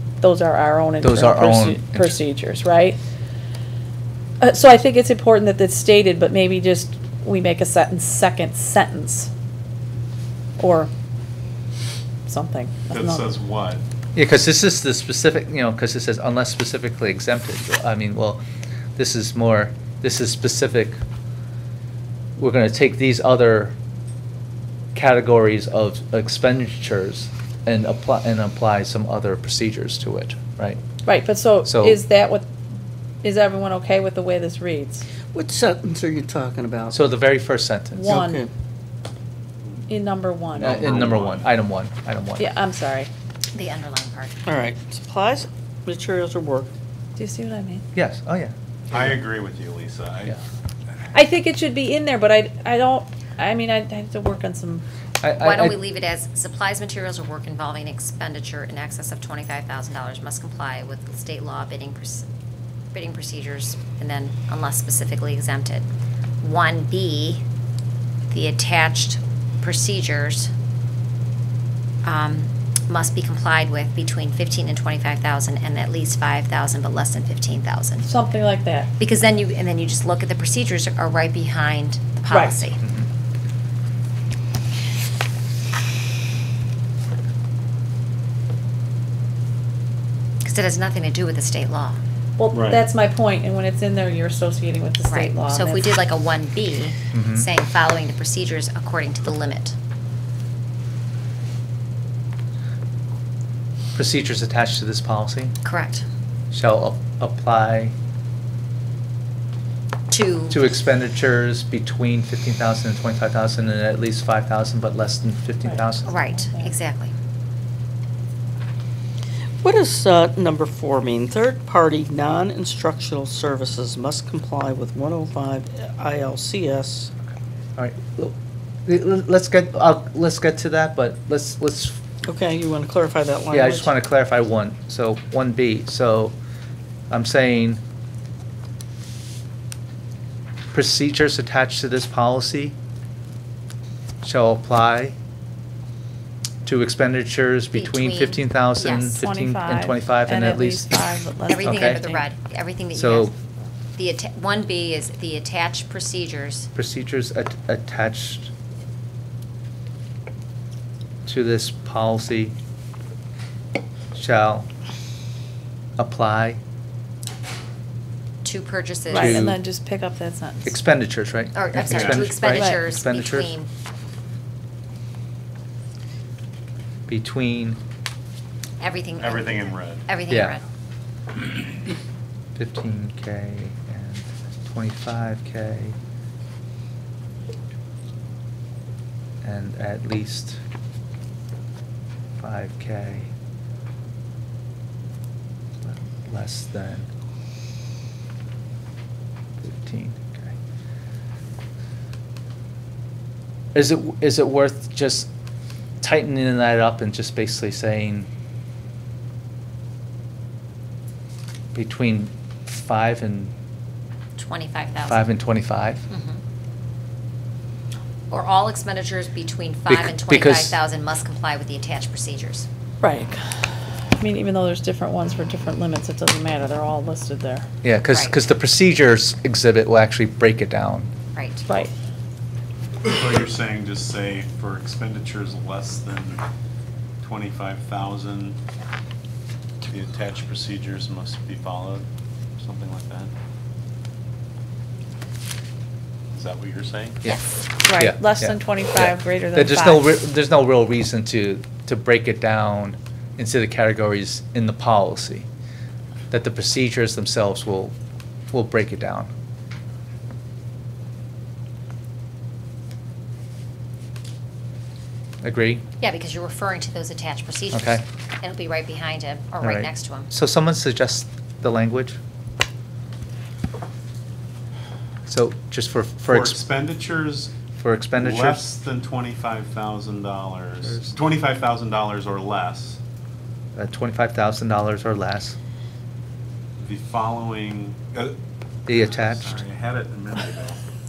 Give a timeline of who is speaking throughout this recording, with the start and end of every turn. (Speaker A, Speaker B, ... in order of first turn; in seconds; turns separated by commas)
Speaker A: 0.2-3.0, Speaker B: 1.0-2.2, Speaker A: 4.4-9.3, Speaker A: 10.6-10.9, Speaker A: 12.3-13.3, Speaker C: 12.9-13.8, Speaker B: 14.2-18.4, Speaker B: 19.0-21.0, Speaker B: 22.4-23.8, Speaker B: 24.9-30.8, Speaker A: 31.1-32.5, Speaker B: 31.6-32.0, Speaker A: 33.2-35.0, Speaker D: 35.3-37.0, Speaker B: 36.9-38.2, Speaker A: 38.0-38.4, Speaker D: 38.1-38.5, Speaker A: 39.9-41.0, Speaker B: 40.6-42.5, Speaker C: 40.6-41.5, Speaker A: 42.4-43.1, Speaker E: 43.5-44.3, Speaker D: 44.5-46.7, Speaker A: 47.2-47.9, Speaker B: 47.9-49.1, Speaker C: 48.9-50.4, Speaker A: 51.1-54.8, Speaker B: 55.2-55.8, Speaker E: 55.4-62.2, Speaker E: 62.9-65.9, Speaker E: 66.4-67.4, Speaker E: 68.3-70.5, Speaker E: 72.0-78.1, Speaker A: 78.1-78.9, Speaker E: 79.0-82.8, Speaker A: 82.3-82.6, Speaker B: 82.8-83.1, Speaker E: 90.4-92.0, Speaker A: 92.4-95.9, Speaker C: 92.5-92.8, Speaker E: 95.0-99.8, Speaker B: 97.1-97.5, Speaker B: 104.0-105.5, Speaker E: 105.7-106.1, Speaker B: 106.5-108.0, Speaker E: 110.1-110.7, Speaker B: 110.5-116.2, Speaker A: 115.7-116.7, Speaker E: 116.0-117.1, Speaker D: 119.6-127.1, Speaker B: 127.8-128.4, Speaker B: 128.9-132.0, Speaker D: 132.2-133.9, Speaker B: 133.5-136.3, Speaker B: 137.1-137.8, Speaker B: 140.7-142.8, Speaker B: 144.2-145.2, Speaker B: 146.7-150.9, Speaker E: 147.7-149.2, Speaker A: 149.2-152.2, Speaker E: 151.5-153.3, Speaker B: 151.6-152.0, Speaker B: 152.9-153.3, Speaker E: 154.0-156.7, Speaker B: 156.8-158.5, Speaker B: 161.3-162.6, Speaker B: 164.1-164.7, Speaker B: 166.0-166.6, Speaker E: 168.4-169.5, Speaker A: 169.1-170.8, Speaker B: 169.2-169.6, Speaker B: 170.7-173.5, Speaker E: 171.6-173.7, Speaker C: 171.8-172.3, Speaker A: 172.5-172.8, Speaker B: 177.1-177.8, Speaker E: 178.8-180.6, Speaker C: 179.2-180.1, Speaker B: 180.3-180.6, Speaker B: 182.6-186.0, Speaker B: 189.4-190.6, Speaker B: 192.4-193.3, Speaker B: 195.8-197.1, Speaker B: 199.6-200.5, Speaker B: 203.7-205.3, Speaker B: 206.0-208.3, Speaker B: 211.7-213.5, Speaker E: 214.4-215.3, Speaker B: 215.1-216.1, Speaker E: 216.1-216.4, Speaker E: 218.3-222.7, Speaker B: 219.9-220.8, Speaker A: 223.0-223.4, Speaker A: 224.2-227.7, Speaker B: 227.8-231.1, Speaker E: 228.1-228.4, Speaker E: 231.3-231.7, Speaker C: 233.1-236.4, Speaker C: 237.2-238.6, Speaker C: 239.8-242.1, Speaker C: 242.6-243.3, Speaker C: 246.3-247.2, Speaker A: 247.8-250.1, Speaker B: 247.9-255.5, Speaker B: 256.3-257.9, Speaker B: 258.5-259.3, Speaker B: 265.4-265.8, Speaker E: 266.0-270.3, Speaker B: 267.7-268.0, Speaker B: 269.6-272.2, Speaker B: 275.3-276.6, Speaker C: 276.3-277.6, Speaker B: 277.8-278.6, Speaker C: 278.1-283.0, Speaker B: 280.8-281.2, Speaker B: 283.8-285.6, Speaker C: 286.8-288.4, Speaker B: 288.9-289.6, Speaker C: 288.9-290.8